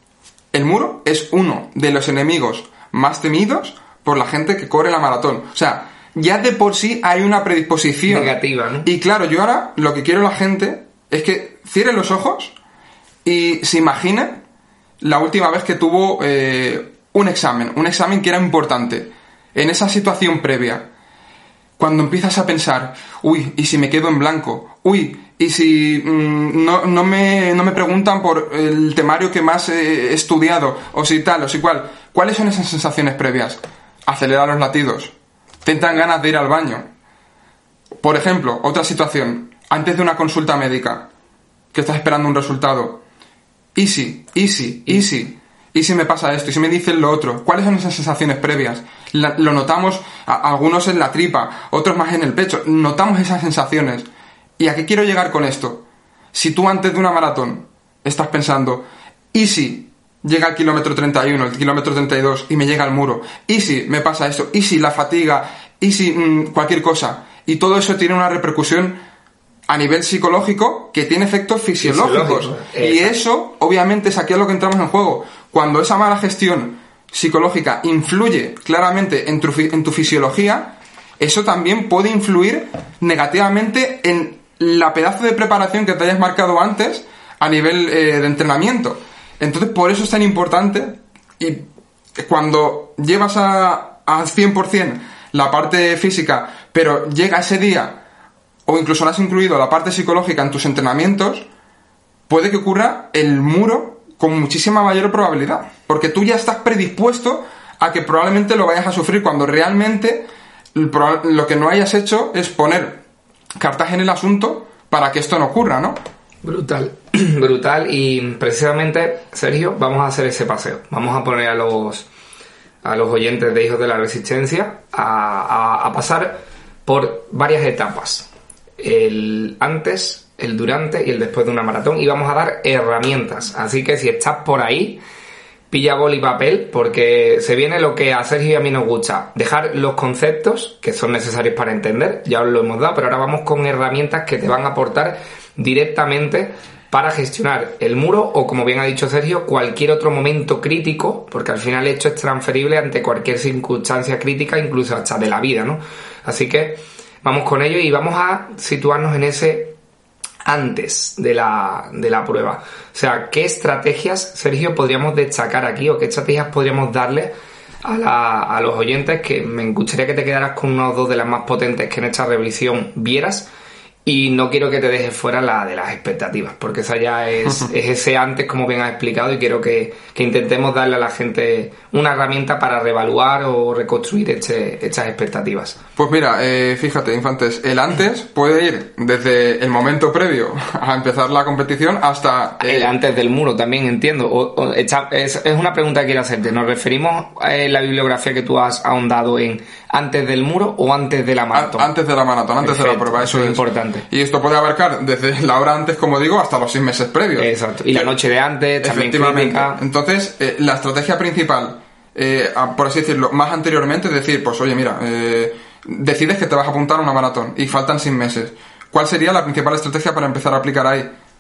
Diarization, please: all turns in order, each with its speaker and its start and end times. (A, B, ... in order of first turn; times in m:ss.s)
0:00.5-0:12.6 A
0:08.1-0:08.9 B
0:13.2-0:14.4 A
0:15.0-0:20.9 A
0:21.8-0:35.1 A
0:35.6-0:36.9 A
0:38.0-0:41.1 A
0:41.7-0:43.0 A
0:43.8-1:09.0 A
1:09.7-1:31.6 A
1:11.8-1:13.2 B
1:32.2-1:38.0 A
1:38.7-1:41.5 A
1:42.3-1:53.0 A
1:53.6-1:56.0 A
1:56.4-2:02.1 B
2:02.8-2:08.3 B
2:08.8-2:15.0 B
2:15.7-2:39.8 B
2:40.4-2:53.5 B
2:54.0-3:05.8 B
3:06.0-3:12.9 A
3:12.6-3:21.9 B
3:21.5-3:28.1 A
3:22.6-3:24.1 B
3:27.4-3:29.8 B
3:28.8-3:41.1 A